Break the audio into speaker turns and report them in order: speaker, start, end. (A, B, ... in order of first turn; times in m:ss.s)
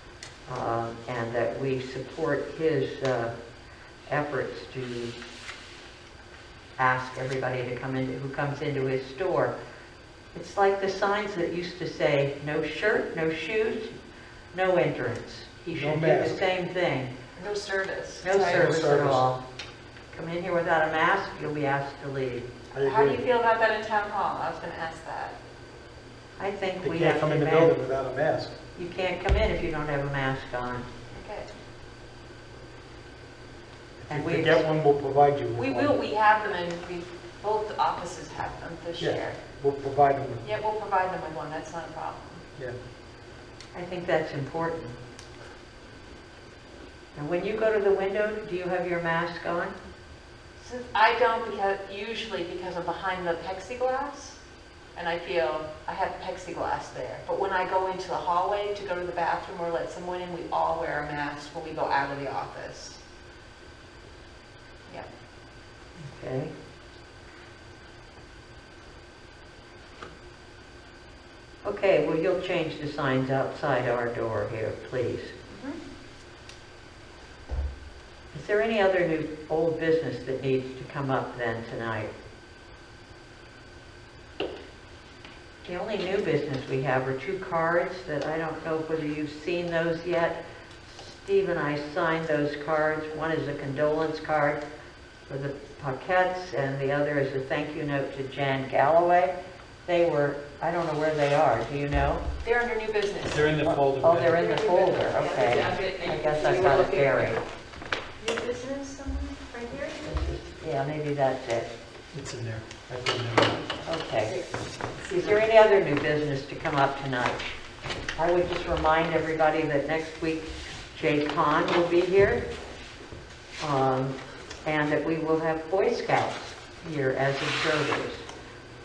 0:00.5-0:03.3 A
0:04.1-0:05.2 A
0:06.8-0:09.5 A
0:10.3-0:13.9 A
0:14.5-0:17.1 A
0:15.7-0:16.4 B
0:17.4-0:18.6 C
0:18.2-0:19.4 A
0:18.4-0:19.2 B
0:20.1-0:22.5 A
0:22.7-0:23.2 B
0:22.8-0:25.4 C
0:26.4-0:27.7 A
0:26.8-0:28.6 B
0:28.7-0:30.9 A
0:31.1-0:31.5 C
0:34.0-0:35.9 B
0:34.1-0:34.7 A
0:35.6-0:39.4 C
0:39.0-0:40.4 B
0:40.4-0:42.4 C
0:43.7-0:45.0 A
0:47.2-0:49.7 A
0:50.6-0:54.4 C
0:55.0-1:03.0 C
1:06.0-1:06.5 A
1:11.6-1:15.3 A
1:15.5-1:15.8 C
1:18.3-1:22.1 A
1:25.6-1:34.6 A
1:35.3-1:39.3 A
1:39.9-1:42.2 A
1:42.4-1:43.7 C
1:43.3-1:44.4 B
1:44.0-1:47.4 A
1:44.4-1:47.4 C
1:48.2-1:50.4 C
1:50.0-1:51.7 A
1:52.1-1:53.6 B
1:53.8-1:54.3 A
1:54.2-1:55.4 C
1:55.0-1:57.4 A
1:58.2-2:02.4 A
2:03.6-2:08.2 A